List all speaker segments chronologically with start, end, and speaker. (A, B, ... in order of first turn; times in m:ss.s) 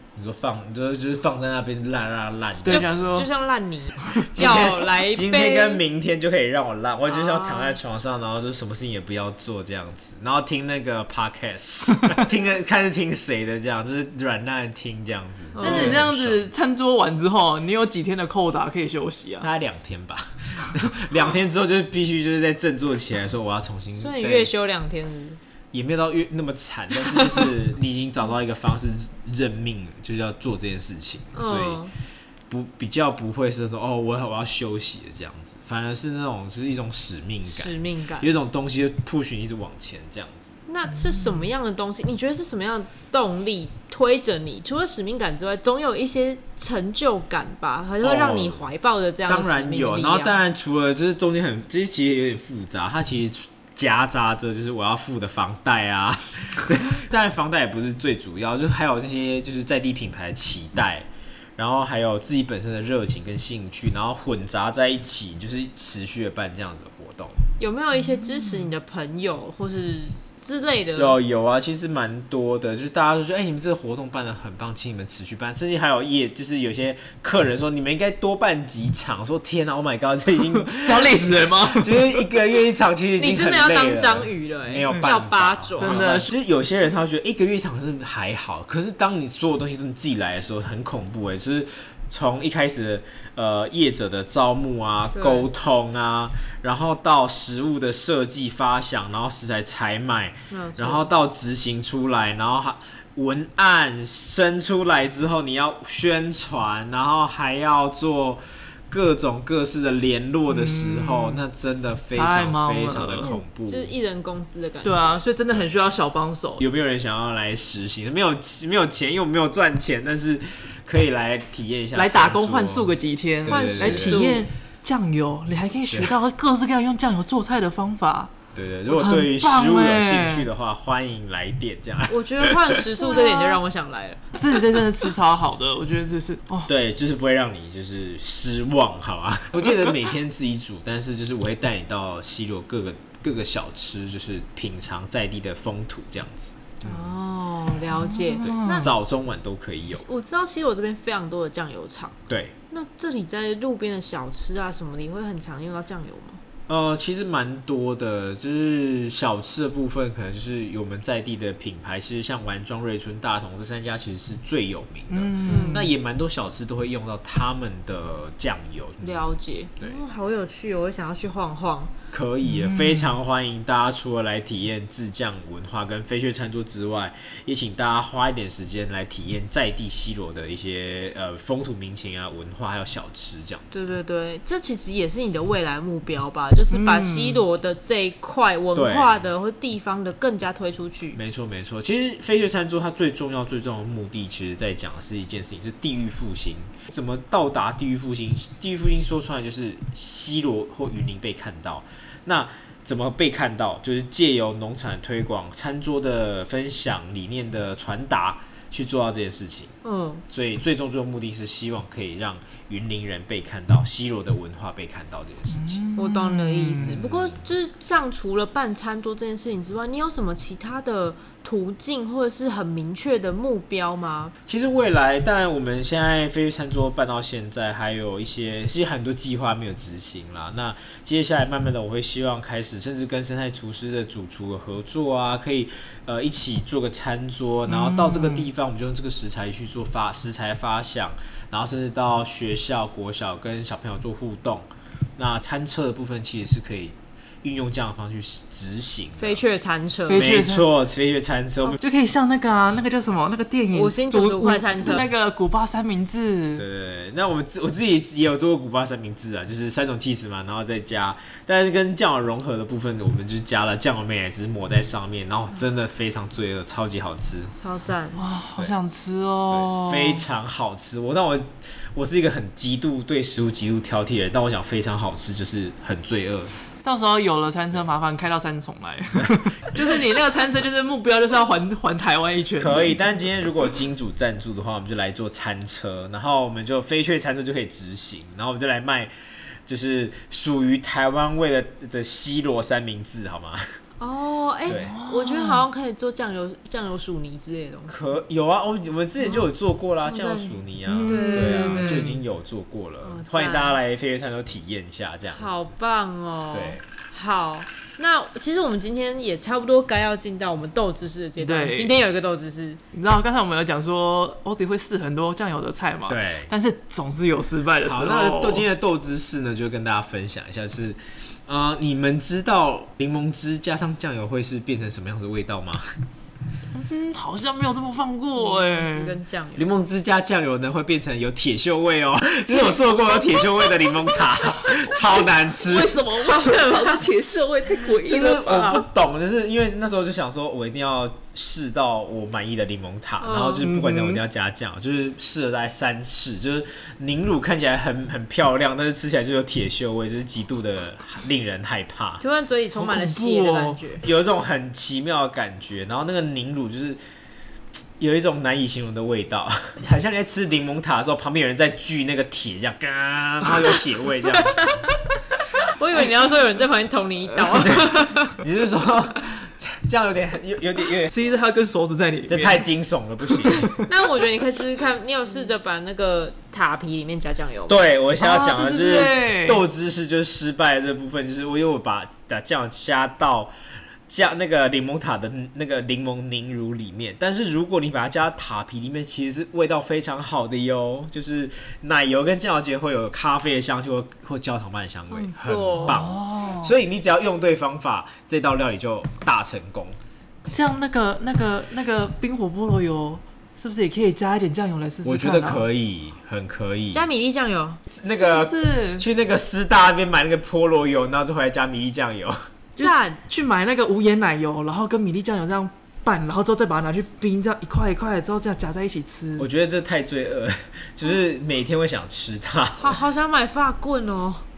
0:00.1-0:03.3 A
0:02.6-0:03.3 B
0:02.7-0:05.8 C
0:03.9-0:04.3 B
0:04.1-0:16.5 A
0:07.1-0:07.8 C
0:15.5-0:16.0 C
0:15.6-0:19.5 B
0:19.4-0:24.5 A
0:24.0-0:25.4 C
0:25.7-0:31.8 A
0:31.3-0:31.9 C
0:32.5-0:40.5 A
0:37.4-0:38.3 C
0:40.7-0:50.4 C
0:48.0-0:48.7 A
0:49.3-1:07.5 A
1:07.6-1:11.2 C
1:08.1-1:08.6 B
1:11.0-1:53.9 A
1:20.5-1:22.2 B
1:23.2-1:26.3 C
1:25.8-1:26.3 B
1:35.1-1:35.5 C
1:40.5-1:41.1 C
1:50.5-1:51.4 B
1:52.1-1:53.3 B
1:53.2-1:55.2 C
1:54.8-1:56.6 B
1:56.6-2:04.3 A
2:01.9-2:08.3 B
2:03.5-2:04.4 C
2:05.9-2:06.1 A
2:08.5-2:12.5 A
2:08.9-2:10.5 B
2:12.1-2:14.2 C
2:13.0-2:13.6 B
2:14.3-2:16.7 B
2:16.7-2:27.1 A
2:26.8-2:28.9 C
2:28.0-2:28.9 B
2:28.4-2:30.0 A
2:29.9-2:32.2 C
2:32.3-2:32.6 A
2:32.7-2:36.4 C
2:36.7-2:50.0 A
2:45.1-2:45.9 B
2:45.5-2:45.8 C
2:49.0-2:51.9 C
2:52.1-3:03.9 A
2:52.4-2:53.1 B
3:03.7-3:11.2 C
3:06.7-3:07.4 B
3:08.7-3:09.2 A
3:11.1-3:29.7 A
3:29.8-3:30.2 C
3:30.3-3:35.8 A
3:35.5-3:37.0 B
3:36.0-3:44.3 C
3:36.8-3:37.5 A
3:44.5-4:09.4 A
3:57.7-3:58.5 B
4:09.2-4:10.3 C
4:10.1-4:10.7 B
4:10.1-4:11.8 A
4:11.8-4:16.6 B
4:13.7-4:15.1 C
4:16.6-4:27.5 A
4:27.6-4:28.2 C
4:28.2-4:30.2 B
4:29.5-4:36.6 A
4:36.8-4:43.0 B
4:39.1-4:39.8 A
4:42.6-4:49.1 A
4:49.6-4:53.6 A
4:54.0-4:58.0 C
4:54.7-4:54.9 A
4:54.7-4:55.6 B
4:57.9-5:05.7 A
5:00.0-5:02.1 C
5:00.8-5:02.2 B
5:03.0-5:03.8 C
5:05.3-5:12.8 C
5:06.5-5:06.8 A
5:11.4-5:11.9 B
5:12.9-5:18.6 B
5:16.1-5:16.5 A
5:17.8-5:25.8 A
5:26.7-5:29.2 B
5:28.4-5:29.7 C
5:29.6-5:36.0 A
5:35.6-5:38.8 B
5:38.0-5:52.2 A
5:43.2-5:43.7 C
5:43.6-5:44.2 B
5:52.2-5:54.0 C
5:52.7-5:53.8 B
5:54.0-5:57.0 A
5:58.0-6:04.8 A
6:04.5-6:04.9 C
6:05.6-6:08.4 C
6:07.5-6:11.1 A
6:11.1-6:12.6 B
6:12.3-6:13.7 A
6:13.4-6:13.8 B
6:13.8-6:17.8 C
6:17.7-6:23.5 A
6:18.2-6:19.6 B
6:24.1-6:40.0 A
6:35.1-6:36.0 C
6:35.8-6:36.7 B
6:40.5-6:45.6 B
6:45.0-6:47.0 A
6:46.9-6:47.8 C
6:47.9-6:52.4 A
6:48.0-6:49.0 B
6:52.8-6:59.5 B
6:52.8-6:53.2 C
6:59.4-7:03.0 A
7:02.8-7:04.4 C